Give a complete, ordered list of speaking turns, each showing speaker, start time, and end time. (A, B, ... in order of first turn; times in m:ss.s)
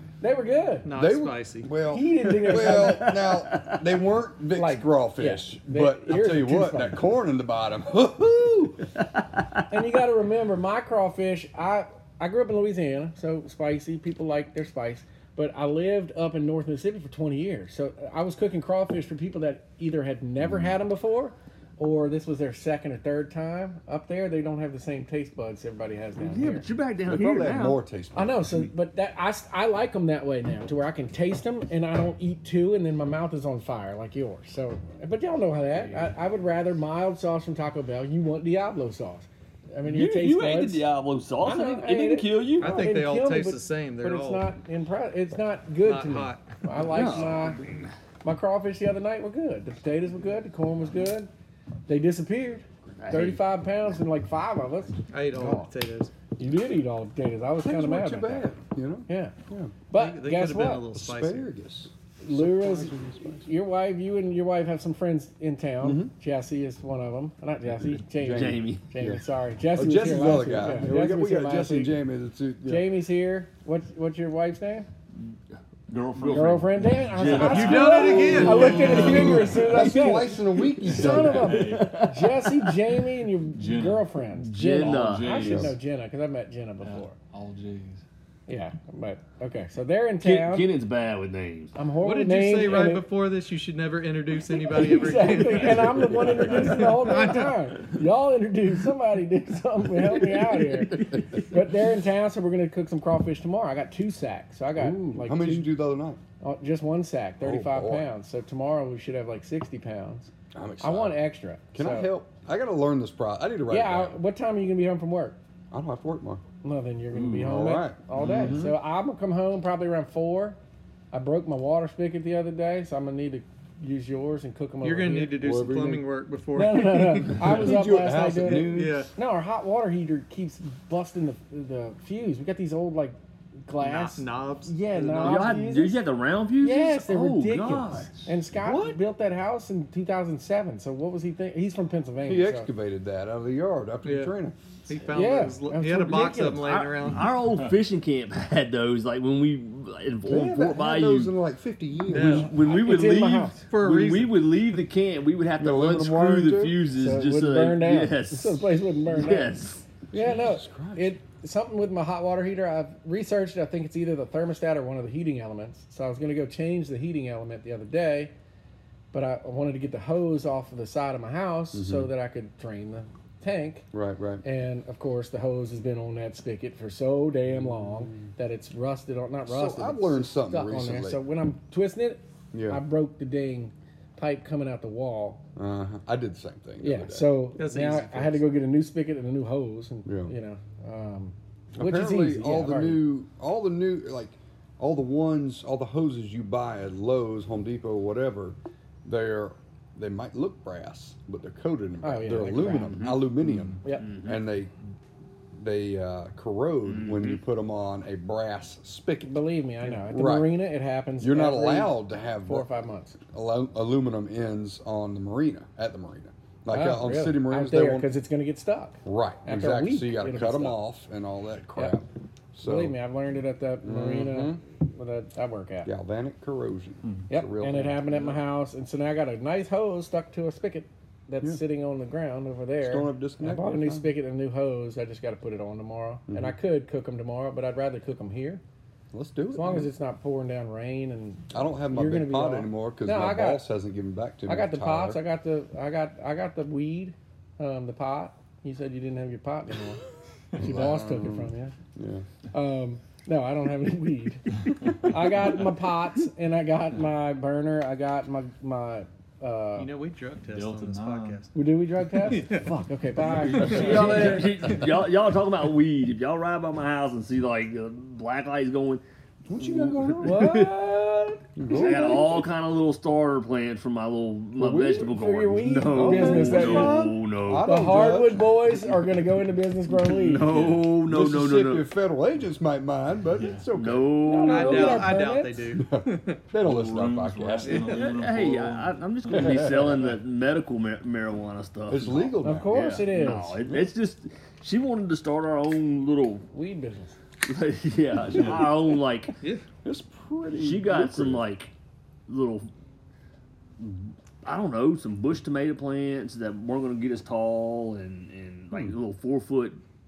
0:00.2-0:00.9 A
0:00.8-0:01.7 B
0:00.9-0:08.8 C
0:01.8-0:03.2 A
0:02.3-0:03.8 D
0:04.5-0:07.1 A
0:09.0-0:09.7 D
0:09.7-0:26.7 A
0:20.4-0:20.8 C
0:26.2-0:27.8 D
0:27.1-0:28.7 C
0:28.2-0:40.9 A
0:39.9-0:42.9 D
0:41.4-0:47.6 A
0:42.6-0:44.5 B
0:45.8-0:46.6 B
0:46.9-0:47.9 D
0:46.9-0:47.3 C
0:48.2-0:51.3 A
0:51.9-0:55.7 A
0:53.0-0:53.4 D
0:55.1-0:56.1 B
0:56.4-0:58.5 A
0:57.6-0:59.8 C
0:59.1-0:59.4 A
0:59.9-1:00.9 A
0:59.9-1:01.5 B
1:00.9-1:03.5 C
1:02.2-1:12.0 A
1:05.8-1:06.1 C
1:07.9-1:09.2 C
1:08.3-1:08.8 D
1:09.7-1:13.0 C
1:12.6-1:14.9 A
1:15.9-1:19.7 E
1:16.2-1:16.5 D
1:16.3-1:27.1 A
1:17.3-1:19.2 B
1:18.4-1:21.6 C
1:20.8-1:22.1 E
1:21.4-1:23.0 D
1:23.5-1:24.1 E
1:24.4-1:25.6 D
1:24.8-1:25.8 E
1:25.4-1:25.7 C
1:26.8-1:28.0 E
1:28.5-1:30.7 A
1:30.2-1:31.8 D
1:31.8-1:33.1 A
1:32.0-1:37.7 B
1:34.6-1:45.7 A
1:35.7-1:36.8 E
1:36.1-1:36.5 C
1:40.1-1:41.5 D
1:44.8-1:46.2 C
1:46.4-1:52.1 A
1:47.4-1:48.1 C
1:50.5-1:51.2 C
1:51.7-1:54.2 C
1:53.7-1:55.4 A
1:55.7-1:56.4 C
1:56.6-2:00.6 A
1:57.1-1:58.8 C
1:58.1-1:58.7 E
2:01.1-2:06.0 A
2:04.8-2:07.6 B
2:05.4-2:06.0 C
2:06.5-2:16.1 A
2:07.4-2:09.1 C
2:08.7-2:09.1 B
2:13.8-2:15.6 B
2:15.1-2:18.3 D
2:16.6-2:22.7 A
2:18.6-2:19.0 C
2:22.2-2:24.6 C
2:24.0-2:24.3 B
2:24.9-2:27.4 B
2:25.1-2:26.6 A
2:26.6-2:31.4 D
2:27.3-2:27.8 E
2:30.3-2:32.5 C
2:32.1-2:34.6 B
2:32.1-2:39.8 D
2:32.6-2:33.7 A
2:35.6-2:36.8 C
2:36.9-2:48.3 A
2:40.1-2:41.2 C
2:49.1-2:53.9 A
2:51.7-2:52.1 C
2:53.9-2:54.4 C
2:54.4-3:05.4 A
2:57.5-2:58.3 C
2:59.5-3:01.2 C
3:02.5-3:02.8 C
3:05.6-3:07.3 C
3:06.8-3:13.0 A
3:07.6-3:08.4 B
3:10.0-3:10.3 C
3:11.7-3:24.7 C
3:22.0-3:23.1 A
3:22.9-3:23.2 D
3:23.4-3:23.8 E
3:23.9-3:24.4 D
3:25.5-3:30.6 C
3:26.9-3:27.4 D
3:29.2-3:33.2 A
3:31.2-3:32.7 C
3:33.3-3:38.1 C
3:36.7-3:40.8 A
3:39.0-3:43.0 C
3:42.6-3:45.9 A
3:43.8-3:44.6 C
3:45.8-3:48.4 C
3:47.0-3:47.3 E
3:47.3-3:58.6 A
3:52.8-3:54.1 C
3:56.3-3:56.6 C
3:59.1-3:59.9 C
3:59.5-4:03.6 A
4:01.5-4:05.2 C
4:04.5-4:10.0 A
4:10.6-4:11.8 A
4:10.6-4:12.3 C
4:12.5-4:19.9 A
4:14.7-4:15.8 E
4:19.8-4:21.5 B
4:20.5-4:21.4 E
4:21.5-4:24.5 A
4:22.2-4:22.7 B
4:23.3-4:24.5 E
4:23.6-4:29.0 D
4:23.7-4:24.5 B
4:29.5-4:30.7 C
4:29.6-4:31.0 D
4:30.2-4:32.2 A
4:31.6-4:32.5 C
4:31.7-4:37.7 D
4:34.6-4:39.0 C
4:35.0-4:37.0 A
4:36.5-4:37.0 E
4:37.6-4:40.5 A
4:39.9-4:41.9 D
4:40.4-4:40.9 E
4:41.1-4:45.1 C
4:43.3-4:43.7 E
4:43.8-4:45.1 D
4:44.3-4:45.7 A
4:44.5-4:46.4 B
4:45.7-4:47.9 C
4:46.6-4:48.9 E
4:47.7-4:48.1 B
4:47.7-4:56.4 D
4:49.3-4:49.9 C
4:51.9-4:53.0 C
4:52.4-4:53.6 A
4:53.7-4:53.9 C
4:56.5-4:57.2 A
4:57.4-4:59.3 D
4:58.3-4:58.7 E
4:59.8-5:01.5 C
5:00.5-5:01.7 D
5:02.3-5:02.7 D
5:03.8-5:09.8 D